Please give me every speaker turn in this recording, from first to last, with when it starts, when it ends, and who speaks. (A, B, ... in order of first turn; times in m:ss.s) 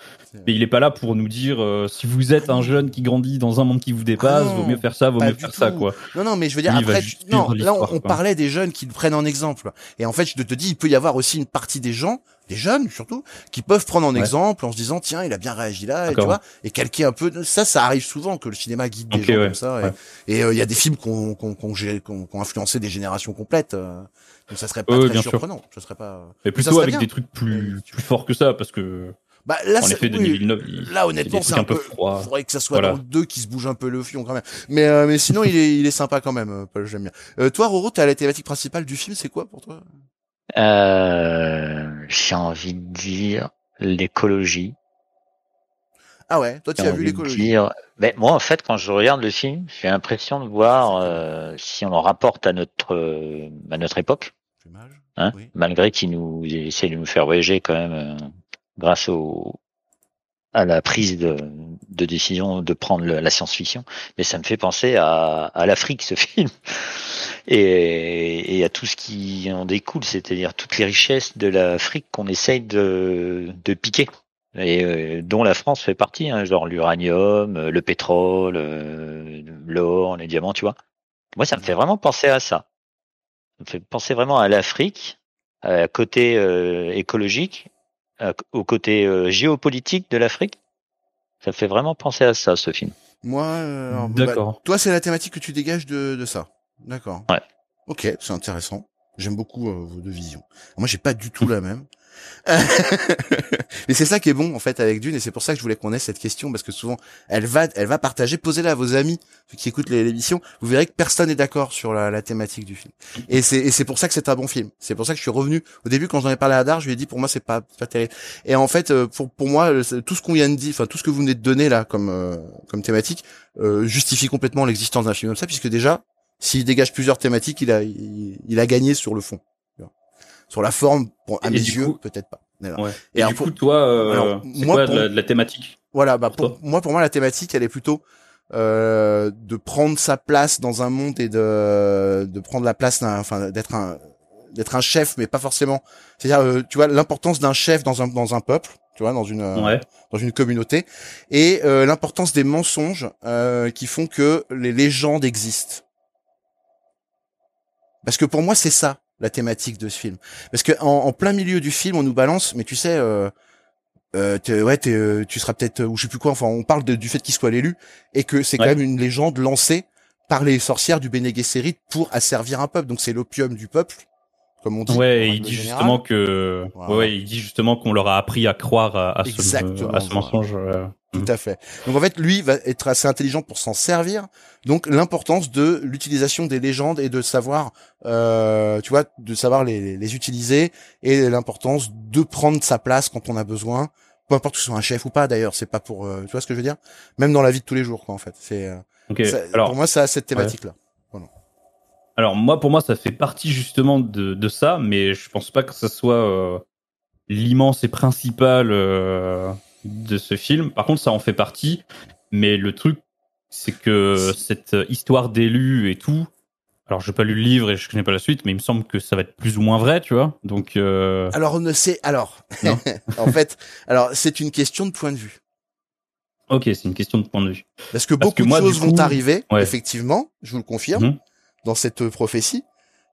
0:00.4-0:06.0 A
0:02.4-0:02.8 B
0:04.2-0:28.0 B
0:06.7-0:08.2 A
0:16.1-0:16.4 A
0:19.1-0:19.9 A
0:24.9-0:25.4 A
0:26.4-0:29.1 A
0:29.4-0:39.8 B
0:29.8-0:33.0 A
0:40.6-0:44.7 C
0:46.3-0:47.5 B
0:46.8-0:54.3 C
0:50.7-0:51.2 B
0:54.6-0:55.5 B
0:55.2-0:59.6 C
1:00.5-1:20.8 C
1:21.4-1:22.6 C
1:23.6-1:27.7 C
1:28.2-1:30.6 C
1:31.4-1:32.9 C
1:33.2-1:37.3 B
1:33.9-1:34.6 A
1:37.9-1:41.9 B
1:42.4-2:09.9 B
2:10.5-2:13.5 B
2:11.4-2:12.0 A
2:12.8-2:15.8 A
2:14.0-2:15.1 B
2:15.9-2:18.0 B
2:18.5-2:24.0 B
2:24.5-2:35.8 B
2:29.6-2:29.8 A
2:38.0-2:43.3 B
2:44.1-2:54.0 B
2:54.6-2:56.0 B
2:54.9-3:01.3 A
2:56.8-2:57.1 B
2:59.2-3:00.4 B
3:01.1-3:21.3 B
3:19.1-3:19.7 A
3:22.2-3:26.6 A
3:27.3-3:36.3 A
3:36.9-3:41.3 A
3:41.3-3:45.4 B
3:42.6-3:43.3 A
3:46.5-3:47.7 A
3:47.9-3:51.1 B
3:48.2-3:49.7 A
3:51.6-3:52.6 B